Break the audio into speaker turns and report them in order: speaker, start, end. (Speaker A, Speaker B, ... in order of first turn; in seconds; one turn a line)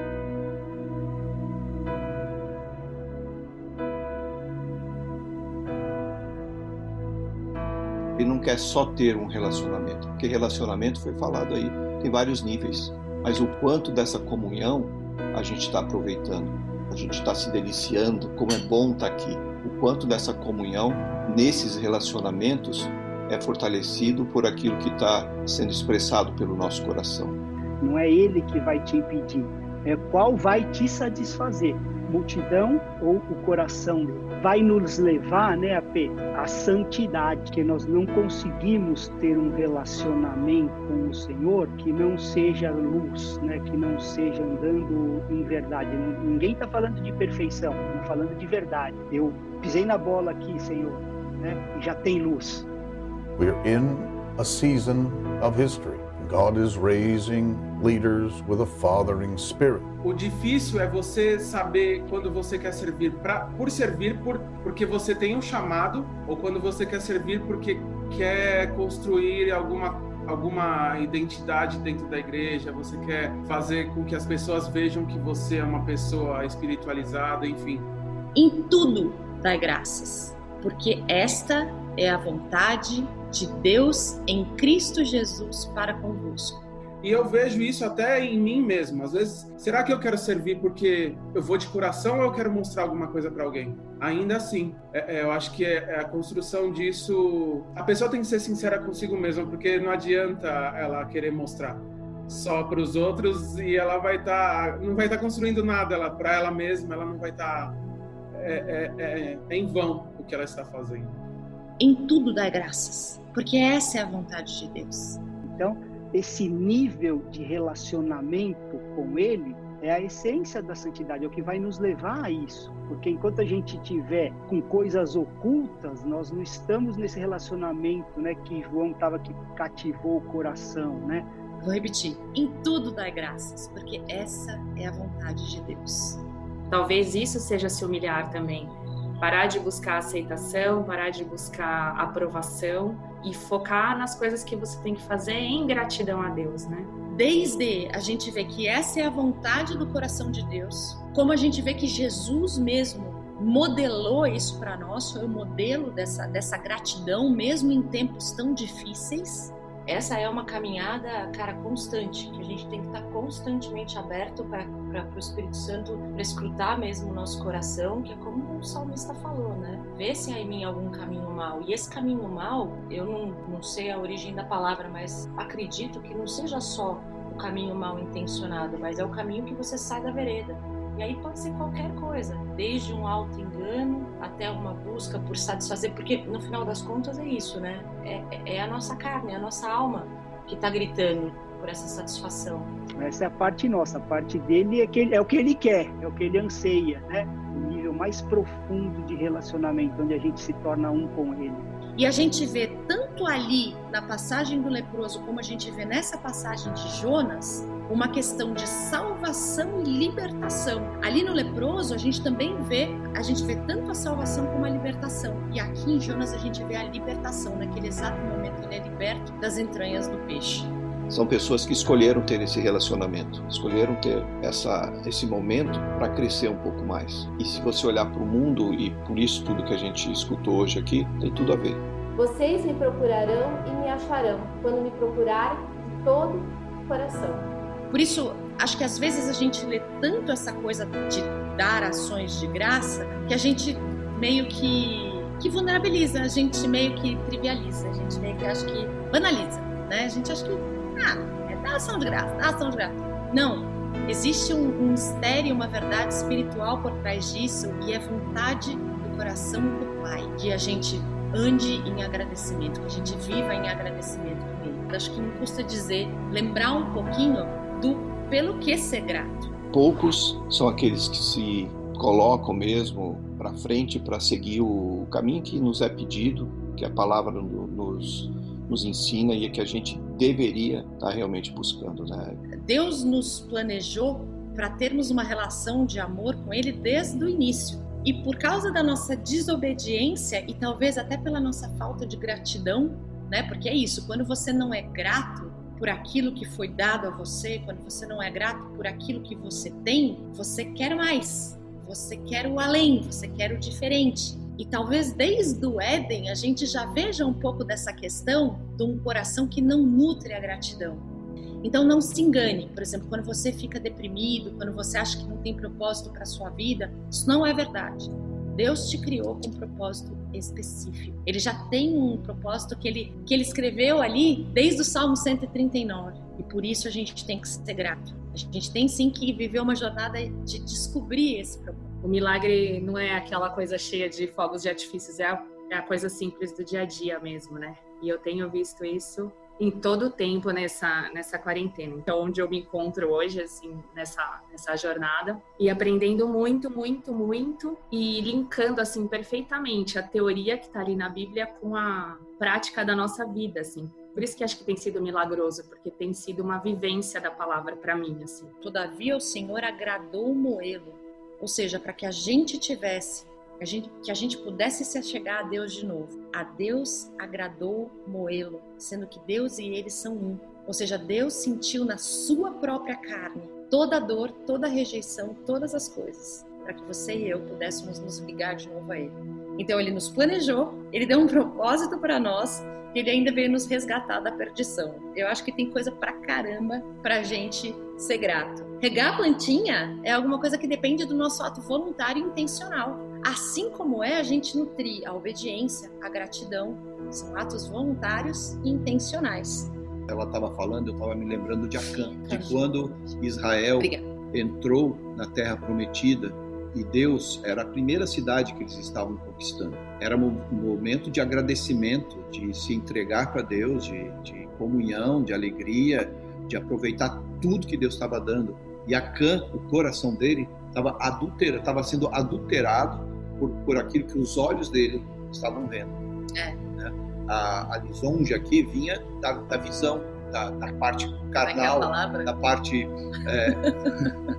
Speaker A: 8.2-27.4
Speaker B: 27.8-52.7
Speaker C: 53.4-59.9
Speaker D: 60.0-77.9
Speaker E: 78.3-86.6
Speaker D: 87.0-107.8
Speaker D: 108.3-111.2
Speaker E: 111.8-115.2
Speaker B: 115.5-131.3
Speaker E: 131.6-136.2
Speaker F: 136.7-146.9
Speaker E: 147.1-192.7
Speaker B: 193.0-201.7
Speaker E: 201.9-220.7
Speaker A: 221.1-231.8
Speaker G: 232.2-237.5
Speaker E: 237.9-269.5
Speaker A: 269.7-282.4
Speaker E: 282.5-311.0
Speaker E: 311.6-331.9
Speaker F: 332.0-358.5
Speaker E: 358.6-399.7
Speaker A: 400.1-425.9
Speaker E: 401.9-402.7
Speaker E: 403.8-404.0
Speaker A: 426.8-433.7
Speaker E: 431.4-432.3